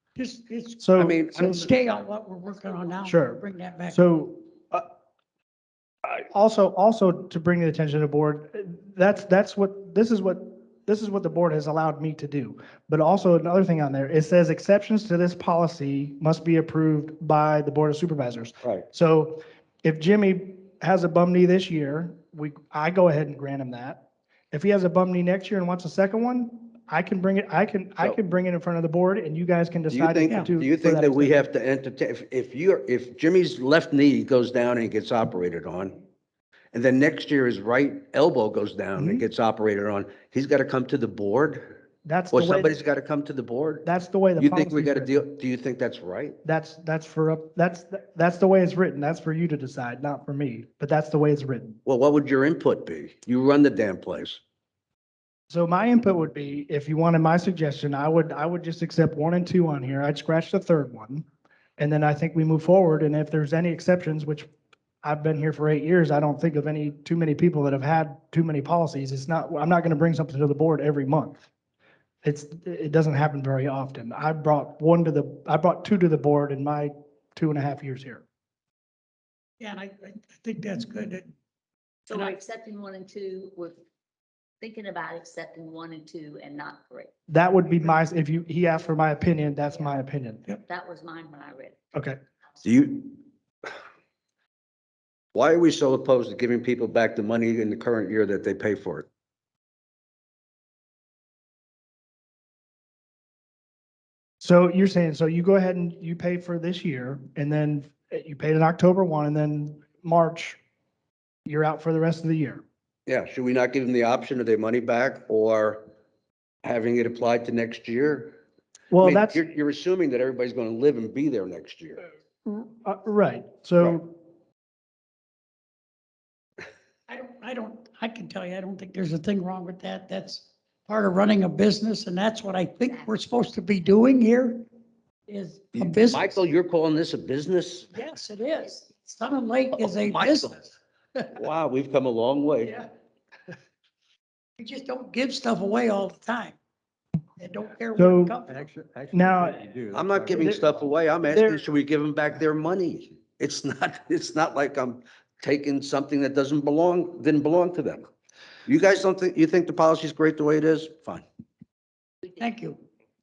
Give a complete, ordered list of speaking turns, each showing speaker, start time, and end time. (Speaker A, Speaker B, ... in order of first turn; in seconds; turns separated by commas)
Speaker A: 0.1-4.0, Speaker B: 0.8-1.7, Speaker C: 1.0-1.6, Speaker B: 3.0-4.8, Speaker B: 6.0-31.4, Speaker C: 29.9-36.0, Speaker C: 36.7-41.6, Speaker B: 39.0-39.2, Speaker B: 42.0-42.8, Speaker C: 42.3-46.4, Speaker B: 43.8-45.2, Speaker B: 46.4-51.8, Speaker C: 51.9-54.4, Speaker B: 55.5-61.2, Speaker B: 61.8-64.5, Speaker B: 65.0-71.4, Speaker B: 72.2-78.2, Speaker A: 79.6-81.3, Speaker D: 82.1-83.8, Speaker D: 84.6-87.1, Speaker B: 87.3-90.4, Speaker D: 90.7-91.8, Speaker C: 92.6-93.2, Speaker C: 95.3-99.1, Speaker B: 104.4-110.6, Speaker B: 111.5-112.6, Speaker C: 113.1-115.8, Speaker C: 116.6-118.4, Speaker B: 118.9-119.4, Speaker C: 119.0-122.0, Speaker B: 122.4-124.1, Speaker A: 127.1-134.6, Speaker A: 135.3-136.4, Speaker C: 135.7-137.9, Speaker A: 137.9-140.8, Speaker C: 139.8-140.5, Speaker C: 141.3-142.8, Speaker A: 144.6-146.6, Speaker A: 147.4-148.7, Speaker B: 147.9-148.4, Speaker E: 148.5-151.0, Speaker B: 149.1-149.6, Speaker C: 149.9-158.1, Speaker B: 150.3-150.7, Speaker B: 151.2-151.6, Speaker C: 158.7-161.2, Speaker A: 162.3-162.8